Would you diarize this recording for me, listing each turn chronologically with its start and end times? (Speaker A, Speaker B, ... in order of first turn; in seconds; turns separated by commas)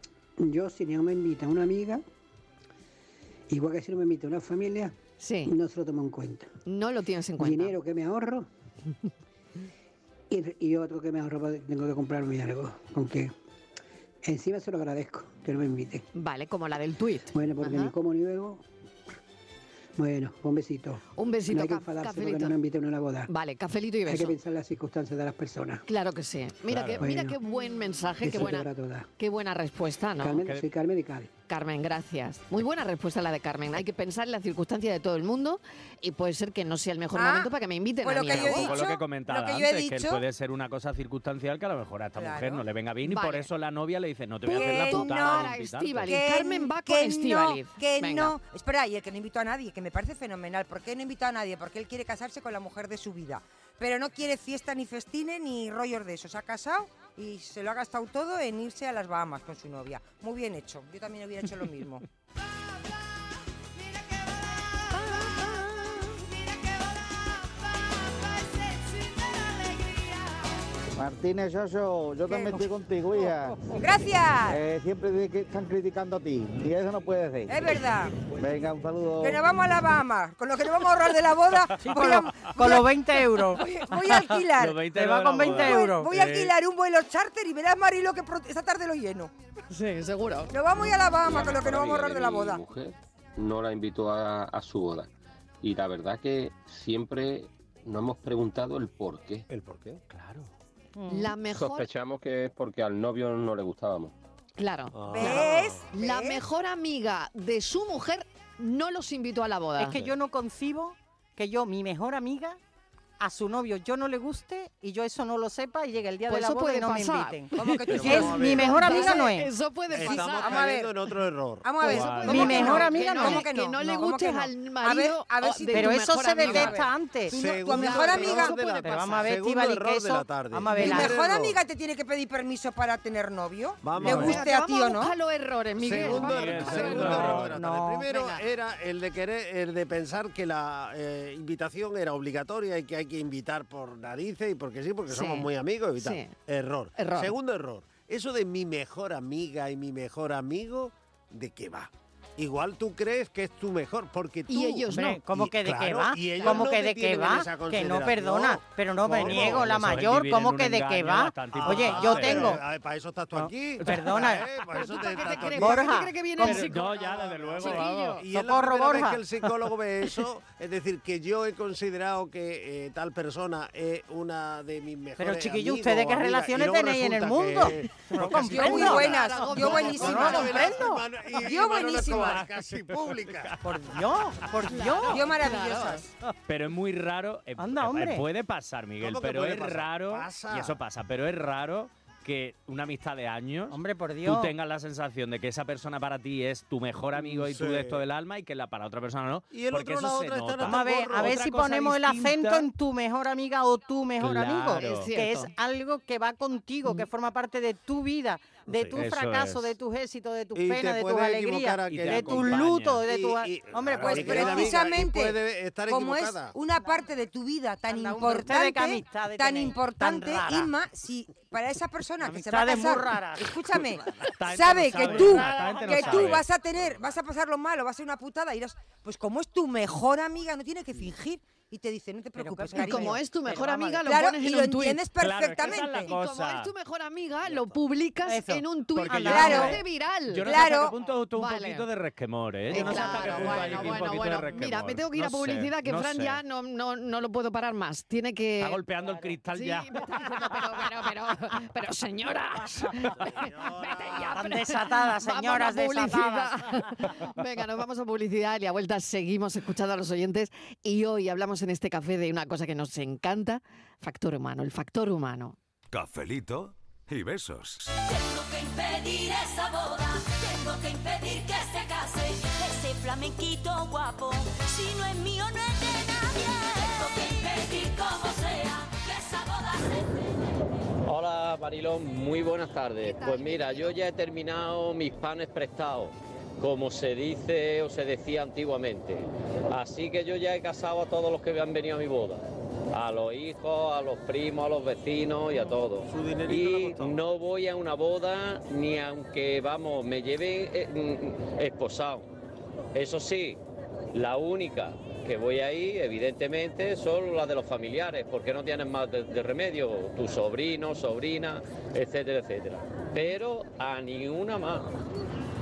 Speaker A: 0.4-2.0, Speaker A: 3.5-5.0, Speaker B: 5.2-5.5, Speaker A: 5.5-6.5, Speaker B: 6.7-7.8, Speaker A: 7.4-8.5, Speaker A: 10.3-13.3, Speaker A: 14.2-16.1, Speaker B: 16.1-17.9, Speaker A: 17.3-18.6, Speaker A: 20.0-23.3, Speaker B: 21.1-22.6, Speaker B: 23.3-24.4, Speaker A: 24.1-25.9, Speaker B: 25.9-30.4, Speaker C: 26.7-27.1, Speaker A: 27.0-27.4, Speaker A: 28.2-29.1, Speaker A: 30.2-31.3, Speaker C: 30.4-30.6, Speaker B: 31.5-38.8, Speaker D: 37.1-37.5, Speaker D: 38.0-40.2, Speaker C: 38.2-46.2, Speaker D: 42.2-42.6, Speaker B: 43.1-43.5, Speaker B: 44.5-48.3, Speaker D: 44.5-45.5, Speaker D: 46.1-62.0, Speaker E: 71.0-73.6, Speaker D: 72.3-72.7, Speaker F: 73.2-73.5, Speaker D: 73.7-74.6, Speaker E: 74.5-77.7, Speaker D: 77.5-78.4, Speaker E: 78.4-79.5, Speaker D: 79.2-82.9, Speaker F: 81.8-86.1, Speaker D: 83.4-84.8, Speaker C: 84.6-86.5, Speaker D: 85.5-89.3, Speaker B: 89.7-90.5, Speaker D: 90.5-92.6, Speaker G: 91.2-95.1, Speaker G: 95.6-99.5, Speaker H: 99.5-100.0, Speaker C: 100.1-100.5, Speaker F: 101.0-101.3, Speaker B: 101.1-101.9, Speaker G: 101.4-104.1, Speaker B: 104.6-110.0, Speaker H: 104.9-105.9, Speaker D: 105.1-106.4, Speaker F: 109.8-112.6, Speaker F: 113.2-119.5, Speaker B: 116.3-120.7, Speaker D: 117.5-119.3, Speaker H: 117.9-119.0, Speaker H: 119.9-121.7, Speaker D: 120.0-120.9, Speaker D: 121.6-128.6, Speaker B: 121.8-126.8, Speaker C: 121.8-122.7, Speaker F: 122.2-123.5, Speaker F: 125.7-127.3, Speaker H: 127.3-131.6, Speaker B: 127.4-129.3, Speaker F: 128.7-131.2, Speaker D: 130.8-135.1, Speaker H: 133.8-134.4, Speaker B: 134.0-137.5, Speaker H: 135.8-159.8, Speaker C: 136.3-137.6, Speaker F: 137.3-138.1, Speaker B: 138.1-138.4, Speaker B: 145.1-146.3, Speaker B: 147.0-147.3, Speaker B: 154.5-155.2, Speaker F: 154.9-162.6, Speaker C: 159.1-162.6, Speaker H: 161.5-165.9, Speaker F: 163.3-164.5, Speaker C: 163.8-164.2, Speaker B: 164.7-168.2, Speaker F: 165.5-166.7, Speaker C: 166.4-168.2, Speaker H: 166.9-183.7, Speaker F: 168.3-169.2, Speaker F: 175.2-181.0, Speaker D: 178.2-180.7, Speaker B: 179.3-180.7, Speaker D: 181.4-182.4, Speaker C: 182.8-183.6, Speaker F: 183.6-186.0, Speaker B: 184.7-186.0, Speaker D: 185.1-186.1, Speaker C: 186.5-202.7, Speaker F: 187.6-188.2, Speaker H: 189.0-190.8, Speaker F: 193.7-194.5, Speaker H: 197.2-198.0, Speaker H: 199.5-201.4, Speaker F: 200.6-214.8, Speaker C: 204.2-205.1, Speaker B: 204.7-205.5, Speaker H: 208.7-209.0, Speaker C: 208.9-209.7, Speaker H: 210.6-216.5, Speaker C: 211.9-213.0, Speaker C: 213.9-214.3, Speaker D: 214.1-233.2, Speaker F: 217.9-220.7, Speaker F: 222.2-223.6, Speaker C: 224.4-226.5, Speaker F: 224.9-226.4, Speaker F: 232.3-234.1, Speaker B: 232.7-235.0, Speaker D: 234.0-236.1, Speaker C: 235.2-236.7, Speaker B: 235.9-240.6, Speaker F: 238.2-239.8, Speaker C: 239.0-246.4, Speaker D: 239.3-239.8, Speaker D: 240.4-240.9, Speaker B: 241.4-241.9, Speaker B: 242.7-248.8, Speaker H: 242.8-244.1, Speaker C: 248.6-250.4, Speaker F: 249.0-249.3, Speaker B: 249.5-265.6, Speaker H: 253.2-254.4, Speaker F: 254.3-257.1, Speaker I: 265.9-267.9, Speaker J: 268.0-280.1, Speaker K: 281.1-302.3, Speaker B: 283.0-283.9, Speaker H: 296.1-297.2, Speaker K: 302.9-303.6, Speaker K: 304.1-315.0